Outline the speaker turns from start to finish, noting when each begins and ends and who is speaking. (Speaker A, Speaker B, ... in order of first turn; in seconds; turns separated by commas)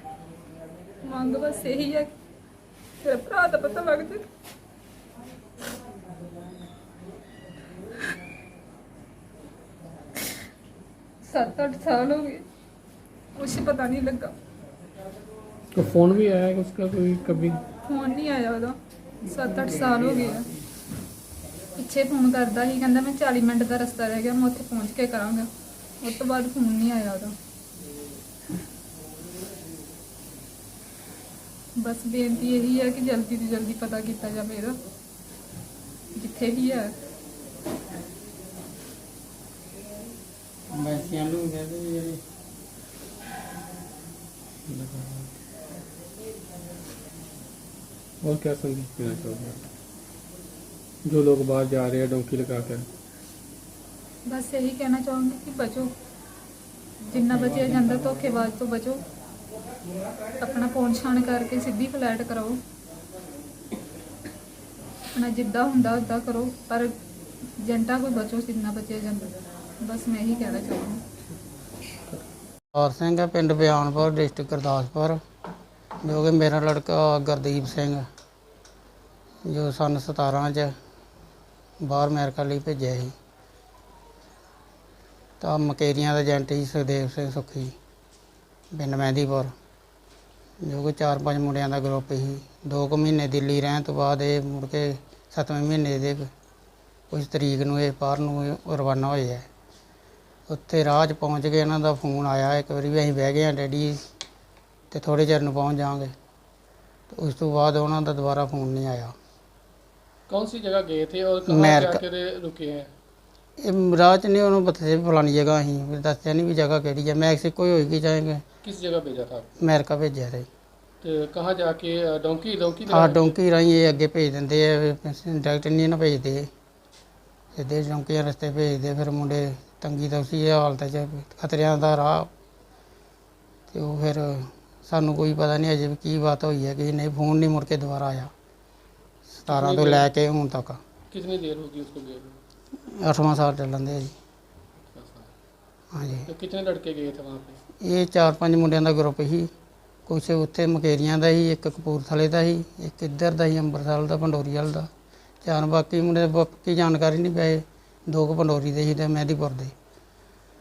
Speaker A: 1.0-2.1, Speaker A: 3.0-4.2, Speaker A: 11.2-12.4, Speaker A: 13.3-14.3, Speaker B: 15.7-17.6, Speaker A: 17.7-20.5, Speaker A: 21.8-25.5, Speaker A: 26.0-27.3, Speaker A: 31.8-34.8, Speaker A: 36.2-36.9, Speaker C: 40.7-42.2, Speaker B: 44.7-45.3, Speaker B: 48.2-49.7, Speaker B: 51.0-52.9, Speaker A: 54.2-55.9, Speaker A: 57.1-59.0, Speaker B: 57.3-58.2, Speaker A: 60.4-62.6, Speaker A: 65.1-66.9, Speaker A: 67.6-71.0, Speaker C: 72.7-75.2, Speaker C: 76.0-78.0, Speaker C: 79.5-80.7, Speaker C: 81.8-83.1, Speaker C: 85.4-87.7, Speaker C: 88.7-89.5, Speaker C: 90.6-96.3, Speaker C: 97.1-99.5, Speaker C: 100.5-104.0, Speaker C: 104.9-106.1, Speaker C: 107.1-109.1, Speaker B: 110.3-112.9, Speaker C: 111.5-112.0, Speaker C: 113.6-118.4, Speaker B: 118.6-119.5, Speaker C: 119.6-120.5, Speaker B: 121.0-123.4, Speaker C: 122.9-126.5, Speaker C: 127.5-132.3, Speaker C: 133.7-138.3, Speaker C: 139.3-140.8, Speaker B: 139.5-140.1, Speaker B: 141.1-142.4, Speaker C: 143.0-144.1, Speaker B: 144.9-145.3, Speaker C: 145.9-146.3, Speaker B: 146.3-147.6, Speaker C: 147.8-149.5, Speaker C: 150.1-154.9, Speaker C: 155.4-159.7